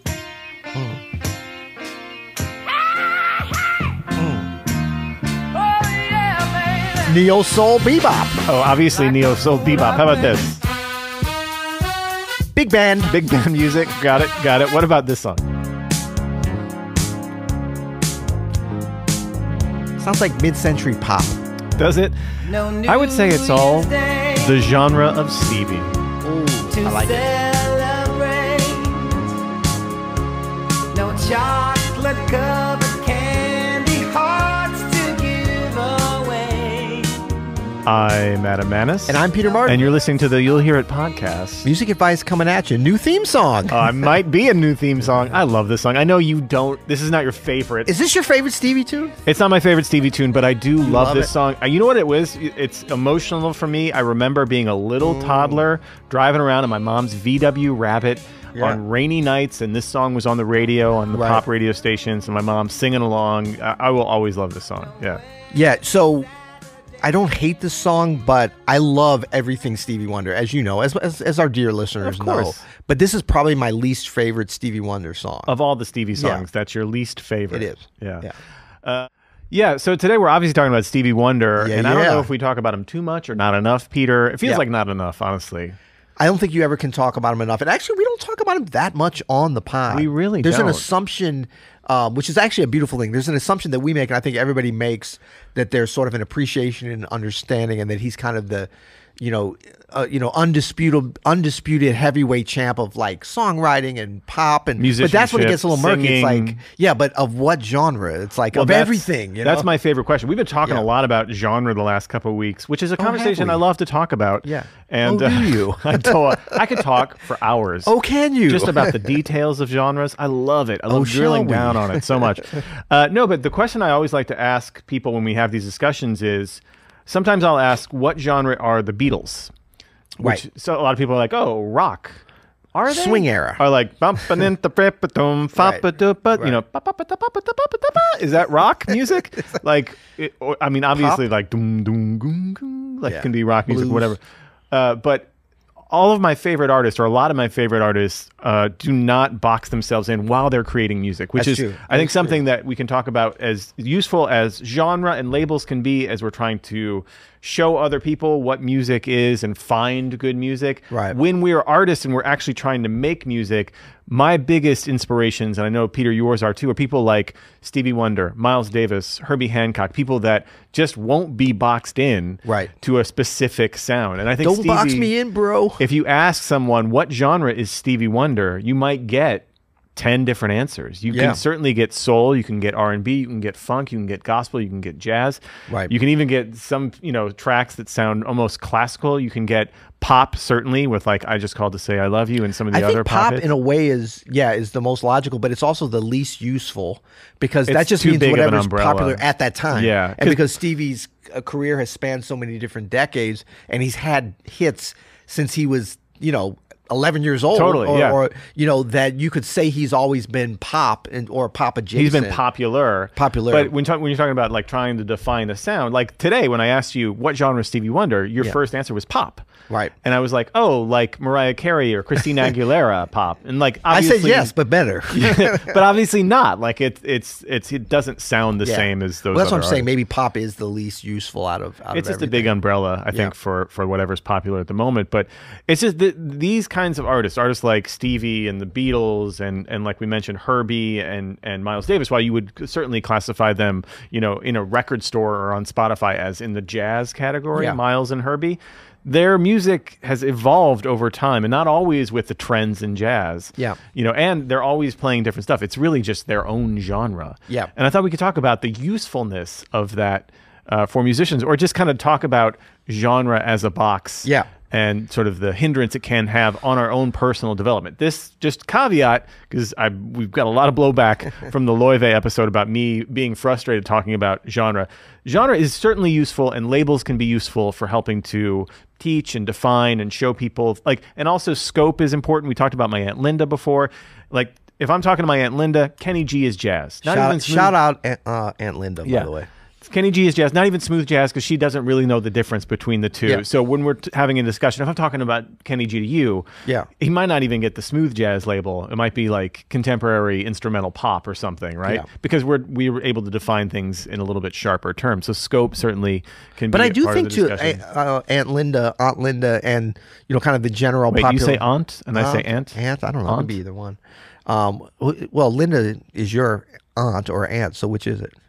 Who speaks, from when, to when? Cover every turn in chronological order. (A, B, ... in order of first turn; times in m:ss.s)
0:00.7-0:01.0 A
0:04.2-0:04.5 A
0:05.6-0:07.1 B
0:07.0-0:08.4 A
0:08.4-0:10.6 C
0:12.6-0:13.4 A
0:13.1-0:15.4 C
0:20.0-0:21.4 A
0:21.8-0:26.0 C
0:22.4-0:24.6 B
0:26.2-0:27.3 A
0:26.7-0:29.3 B
0:30.9-0:37.3 B
0:37.9-0:41.7 C
0:39.1-0:39.9 A
0:41.6-0:44.1 A
0:43.7-0:47.9 C
0:47.9-0:49.2 A
0:49.2-1:05.2 C
0:50.8-0:51.3 A
0:55.0-0:55.6 A
0:58.6-0:58.8 A
1:01.1-1:01.4 A
1:05.5-1:06.3 A
1:07.0-1:15.5 A
1:12.0-1:12.6 C
1:15.5-1:18.3 C
1:16.2-1:16.5 A
1:17.5-1:18.4 A
1:18.8-1:25.8 C
1:21.6-1:22.3 A
1:26.2-1:49.7 A
1:29.9-1:30.9 C
1:44.8-1:46.6 C
1:48.5-1:57.9 C
1:53.0-1:53.6 A
1:54.4-1:56.8 A
1:57.8-1:59.2 A
1:58.5-2:09.5 C
2:00.9-2:02.4 A
2:10.2-2:12.2 C
2:12.8-2:24.2 C
2:12.9-2:13.6 A
2:15.6-2:15.8 A
2:20.9-2:21.2 A
2:23.1-2:24.2 A
2:24.7-2:25.3 C
2:25.9-2:55.1 C
2:31.4-2:32.4 A
2:40.9-2:41.2 A
2:52.4-2:52.7 A
2:54.4-2:55.9 A
2:55.8-3:13.5 C
3:01.1-3:01.4 A
3:12.7-3:32.4 A
3:17.7-3:20.5 C
3:27.5-3:28.2 C
3:31.9-3:39.5 C
3:33.2-3:33.7 A
3:40.0-3:44.5 C
3:43.9-3:45.8 A
3:45.1-3:49.9 C
3:48.6-3:52.5 A
3:51.9-4:47.8 C
4:07.5-4:07.8 A
4:47.0-4:49.5 A
4:49.0-4:56.5 C
4:57.0-5:07.8 C
5:06.7-5:18.3 A
5:11.1-5:12.8 C
5:13.3-5:13.6 C